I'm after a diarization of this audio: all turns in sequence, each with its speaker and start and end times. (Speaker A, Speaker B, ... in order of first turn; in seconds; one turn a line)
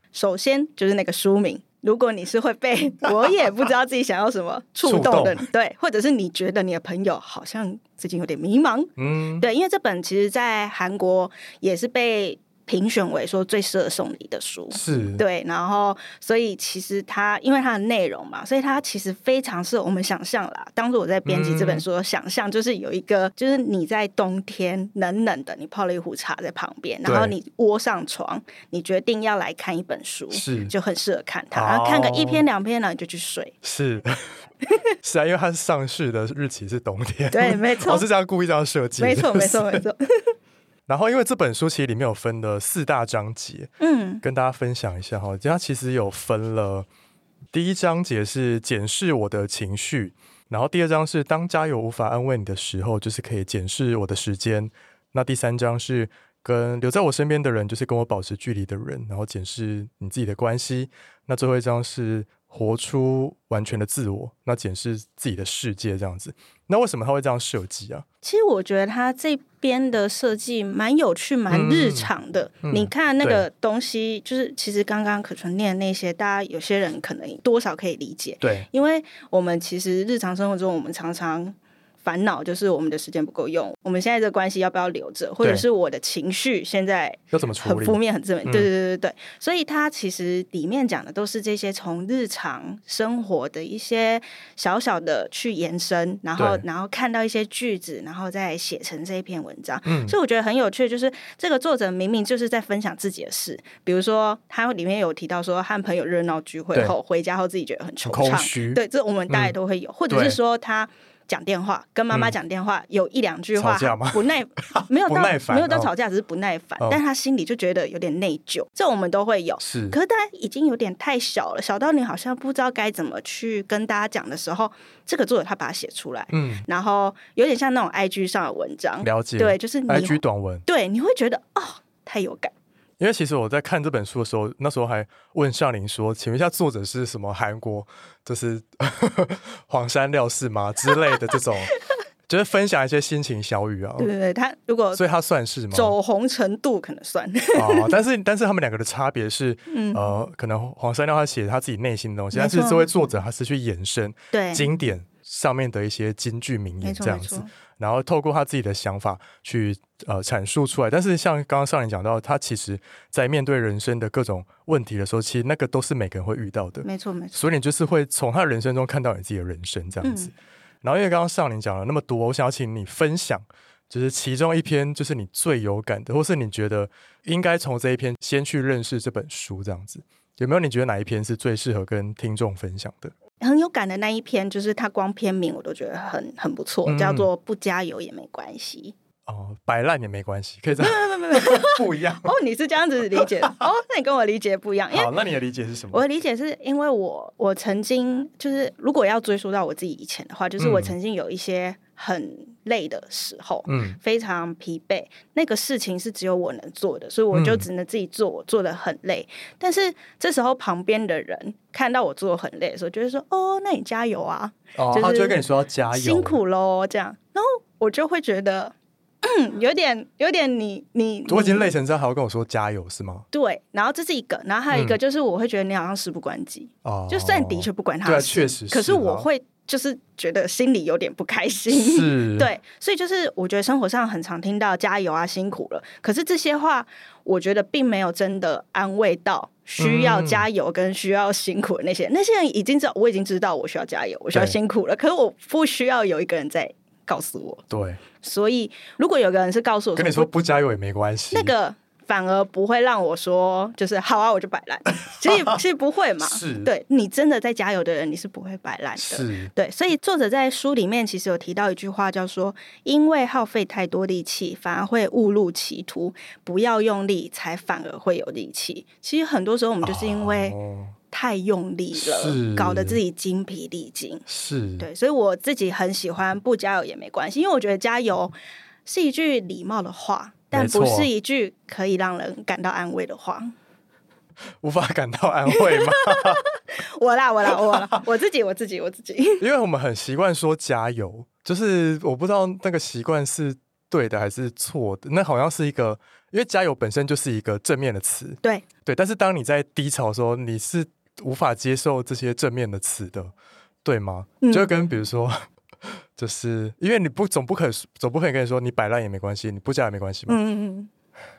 Speaker A: 0.1-33.5
Speaker B: 4.8-5.5
Speaker B: 9.0-9.5
Speaker B: 14.7-15.2
Speaker B: 21.2-21.9
Speaker B: 27.1-27.4
Speaker B: 30.3-30.7
Speaker B: 31.5-32.4
Speaker B: 33.6-34.2
Speaker B: 35.0-39.8
Speaker A: 37.3-38.1
Speaker A: 39.0-40.0
Speaker B: 40.9-46.9
Speaker A: 43.8-44.2
Speaker B: 47.5-68.0
Speaker A: 68.2-132.5
Speaker B: 71.5-72.1
Speaker B: 72.6-73.5
Speaker B: 78.4-78.7
Speaker B: 87.3-88.7
Speaker B: 96.4-96.6
Speaker B: 99.9-100.2
Speaker B: 108.0-109.5
Speaker B: 110.1-110.4
Speaker B: 113.5-115.9
Speaker B: 119.6-120.0
Speaker B: 126.3-126.7
Speaker B: 129.0-130.7
Speaker B: 133.0-141.8
Speaker B: 142.3-144.1
Speaker A: 144.0-145.0
Speaker B: 144.9-146.0
Speaker A: 145.7-148.0
Speaker B: 147.5-183.1
Speaker A: 149.7-150.0
Speaker A: 152.3-152.9
Speaker A: 154.3-154.7
Speaker A: 156.8-157.5
Speaker A: 166.8-167.4
Speaker A: 170.0-170.3
Speaker A: 183.4-188.9
Speaker B: 186.9-187.3
Speaker B: 189.3-192.3
Speaker A: 190.8-195.1
Speaker B: 193.2-193.6
Speaker B: 194.9-196.0
Speaker A: 195.9-215.4
Speaker B: 200.6-201.0
Speaker B: 203.7-204.0
Speaker B: 207.3-207.7
Speaker B: 214.8-216.4
Speaker A: 215.9-221.7
Speaker B: 221.3-223.3
Speaker A: 223.3-247.6
Speaker B: 224.7-225.0
Speaker B: 226.8-229.3
Speaker B: 231.7-232.5
Speaker B: 239.8-240.5
Speaker B: 247.7-248.0
Speaker A: 248.2-250.3
Speaker B: 250.0-251.5
Speaker A: 251.3-270.6
Speaker B: 256.2-256.7
Speaker B: 259.0-259.5
Speaker B: 269.8-271.0
Speaker A: 271.1-274.2
Speaker B: 271.9-273.0
Speaker B: 274.3-274.9
Speaker A: 274.8-283.5
Speaker B: 280.5-281.1
Speaker B: 284.6-286.4
Speaker A: 285.5-289.4
Speaker B: 289.4-303.3
Speaker B: 303.9-305.4
Speaker A: 304.4-304.7
Speaker B: 306.2-310.4
Speaker A: 310.3-310.9